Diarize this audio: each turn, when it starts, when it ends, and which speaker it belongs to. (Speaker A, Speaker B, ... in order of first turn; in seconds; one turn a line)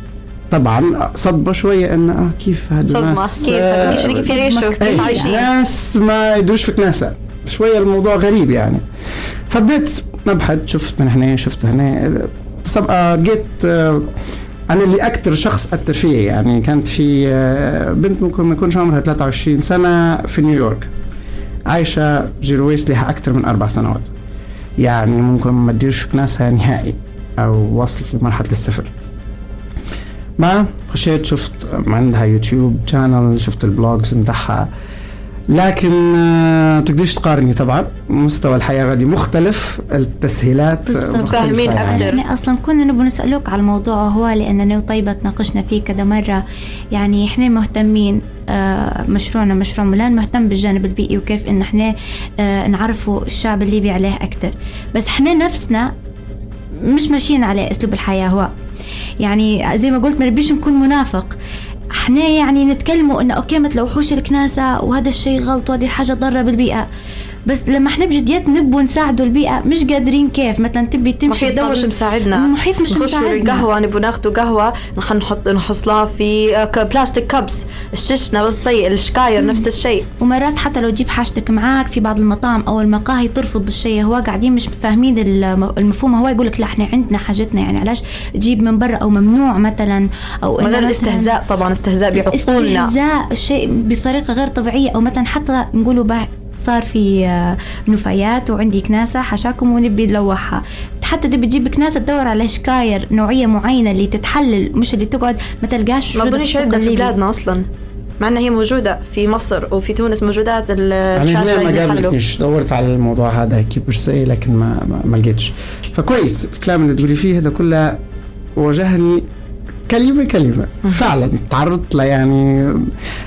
Speaker A: 0.5-8.8
Speaker B: 2.9-5.5
Speaker C: 3.5-5.4
Speaker A: 9.5-14.1
Speaker A: 14.7-20.9
Speaker A: 21.7-24.1
Speaker A: 24.8-28.9
Speaker A: 30.4-34.7
Speaker A: 35.5-42.1
Speaker C: 40.9-46.4
Speaker B: 41.3-42.2
Speaker C: 46.9-55.9
Speaker C: 56.9-58.5
Speaker C: 59.2-61.4
Speaker C: 62.0-66.9
Speaker C: 67.5-73.7
Speaker B: 71.3-80.1
Speaker C: 80.2-91.3
Speaker B: 90.6-92.9
Speaker C: 92.2-107.1
Speaker B: 106.2-107.6
Speaker B: 108.2-112.1
Speaker A: 111.2-118.0
Speaker A: 118.6-119.3
Speaker A: 119.9-122.9